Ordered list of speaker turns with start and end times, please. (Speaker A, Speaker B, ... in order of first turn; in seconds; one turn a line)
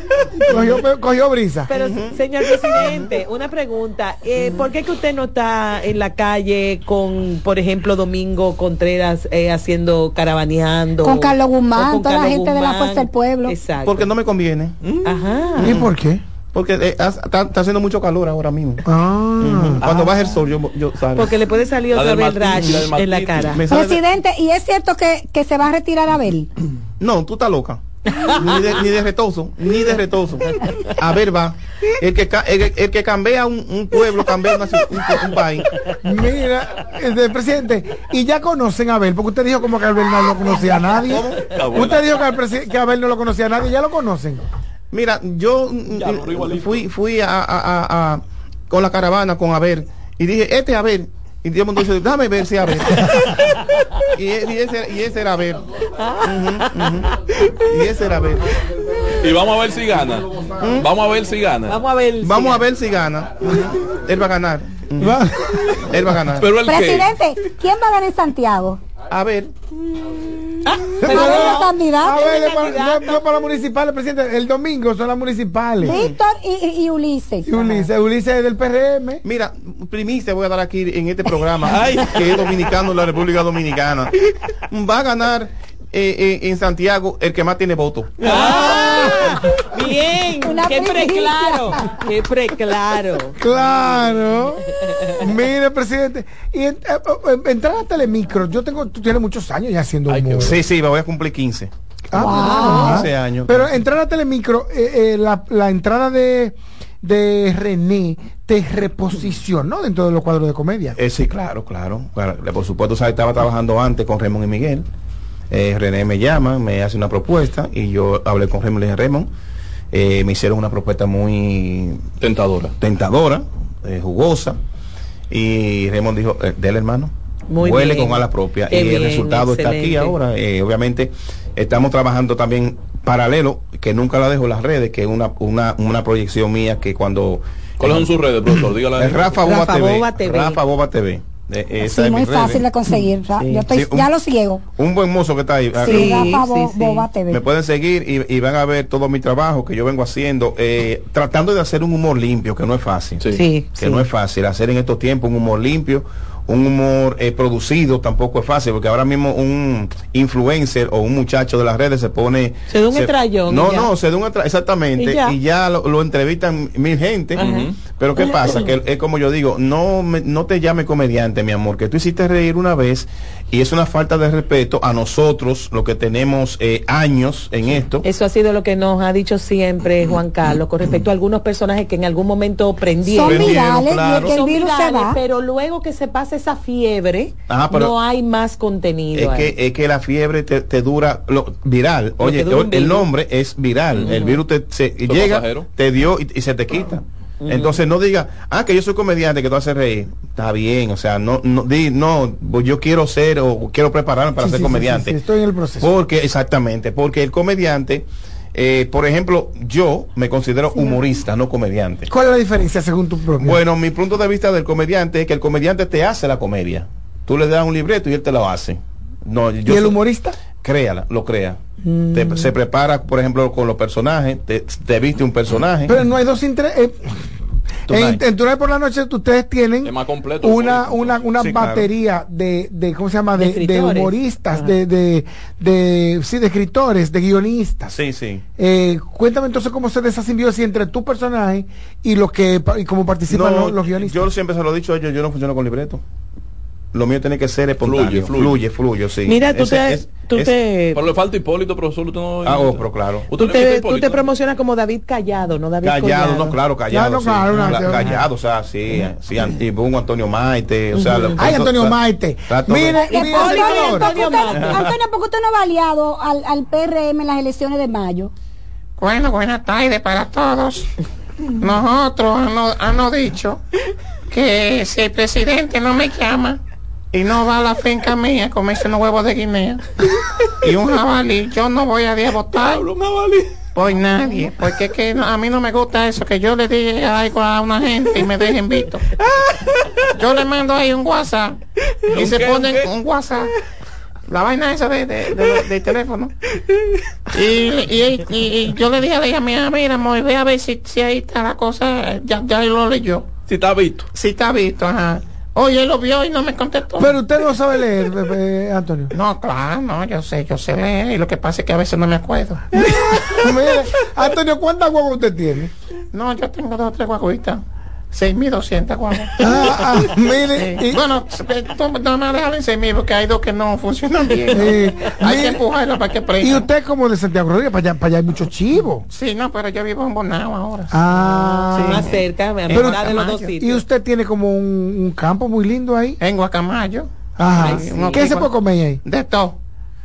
Speaker A: 0.4-1.7
Speaker B: 1.7-14.1
Speaker C: 1.7-2.2
Speaker C: 2.7-3.1
Speaker D: 11.0-13.6
Speaker C: 13.8-14.7
Speaker E: 14.8-15.2
Speaker B: 15.0-15.8
Speaker A: 15.6-16.2
Speaker C: 15.6-15.9
Speaker C: 16.5-18.8
Speaker A: 18.8-19.9
Speaker C: 19.4-21.3
Speaker B: 19.8-20.1
Speaker B: 21.1-23.6
Speaker E: 21.9-23.6
Speaker C: 23.5-24.1
Speaker D: 23.7-26.5
Speaker C: 27.0-35.7
Speaker B: 28.1-28.4
Speaker B: 30.6-30.9
Speaker A: 36.0-44.5
Speaker C: 41.1-41.4
Speaker E: 41.4-42.1
Speaker C: 44.9-53.6
Speaker E: 45.9-46.8
Speaker C: 54.1-55.7
Speaker B: 56.0-56.9
Speaker C: 56.2-57.1
Speaker C: 57.6-58.5
Speaker E: 59.1-61.8
Speaker C: 60.6-60.9
Speaker B: 61.7-62.6
Speaker C: 62.2-65.2
Speaker A: 65.0-65.9
Speaker C: 65.8-66.5
Speaker E: 66.4-67.5
Speaker D: 66.6-68.8
Speaker C: 69.1-69.5
Speaker B: 70.6-73.2
Speaker A: 71.0-76.0
Speaker D: 71.0-72.3
Speaker D: 75.8-77.5
Speaker C: 75.8-76.2
Speaker A: 77.5-79.2
Speaker C: 79.2-84.1
Speaker E: 81.7-82.3
Speaker C: 84.7-88.1
Speaker B: 88.2-93.4
Speaker D: 90.4-92.0
Speaker A: 93.4-100.6
Speaker B: 94.8-95.2
Speaker E: 100.1-100.5
Speaker C: 100.4-101.7
Speaker A: 102.1-111.0
Speaker D: 102.2-103.1
Speaker B: 102.2-103.0
Speaker C: 102.3-103.7
Speaker C: 111.0-114.8
Speaker C: 115.5-119.3
Speaker C: 119.9-122.0
Speaker E: 122.2-122.7
Speaker C: 122.8-124.6
Speaker C: 125.3-142.6
Speaker B: 127.5-130.2
Speaker E: 137.8-139.4
Speaker B: 139.4-140.6
Speaker D: 141.8-144.6
Speaker B: 143.4-143.6
Speaker C: 143.7-144.1
Speaker C: 144.8-146.4
Speaker D: 145.8-147.4
Speaker B: 145.8-147.1
Speaker C: 147.3-153.2
Speaker B: 153.3-154.1
Speaker C: 153.8-178.0
Speaker B: 162.7-163.9
Speaker B: 165.0-165.4
Speaker B: 167.4-168.7
Speaker E: 167.4-167.7
Speaker B: 178.0-189.5
Speaker D: 183.1-185.2
Speaker C: 183.2-184.4
Speaker C: 187.5-187.9
Speaker C: 189.1-205.2
Speaker B: 192.2-193.1
Speaker B: 194.0-194.4
Speaker E: 195.0-195.7
Speaker B: 197.4-197.8
Speaker A: 204.4-205.9
Speaker C: 205.8-212.1
Speaker A: 212.1-213.6
Speaker C: 213.4-220.0
Speaker A: 219.6-220.3
Speaker C: 220.6-221.6
Speaker A: 221.8-222.5
Speaker C: 222.1-226.0
Speaker A: 225.9-227.3
Speaker A: 227.9-238.0
Speaker C: 227.9-228.2
Speaker E: 229.8-231.2
Speaker C: 231.4-231.9
Speaker B: 233.3-234.7
Speaker C: 237.9-238.4
Speaker A: 238.6-244.3
Speaker C: 243.3-246.0
Speaker C: 246.9-250.5
Speaker E: 247.8-248.6
Speaker B: 249.2-251.0
Speaker E: 250.9-254.2
Speaker C: 252.4-253.3
Speaker B: 253.4-256.6
Speaker C: 255.8-263.2
Speaker A: 256.9-258.1
Speaker B: 257.9-258.2
Speaker B: 260.9-261.5
Speaker A: 261.4-264.1
Speaker D: 263.1-268.3
Speaker B: 263.1-264.9
Speaker F: 269.0-270.9
Speaker F: 271.6-273.6
Speaker F: 274.3-276.6
Speaker F: 277.1-279.8
Speaker F: 280.6-282.8
Speaker E: 282.7-283.5
Speaker F: 283.7-289.0
Speaker E: 289.2-290.1
Speaker F: 290.2-291.6
Speaker E: 292.1-292.9
Speaker F: 292.1-293.5
Speaker F: 294.3-296.3
Speaker F: 297.3-303.3
Speaker E: 303.5-304.1
Speaker F: 304.1-307.2
Speaker A: 307.0-309.1
Speaker F: 309.1-312.8
Speaker A: 312.7-315.7
Speaker F: 316.1-326.6
Speaker A: 319.4-321.0
Speaker A: 324.5-325.6
Speaker A: 326.4-329.1
Speaker F: 329.1-330.9
Speaker A: 330.9-332.1
Speaker B: 331.1-333.8
Speaker F: 331.8-332.2
Speaker A: 332.7-336.2
Speaker F: 336.2-338.5
Speaker A: 337.4-339.0
Speaker B: 337.6-338.4
Speaker F: 339.0-339.6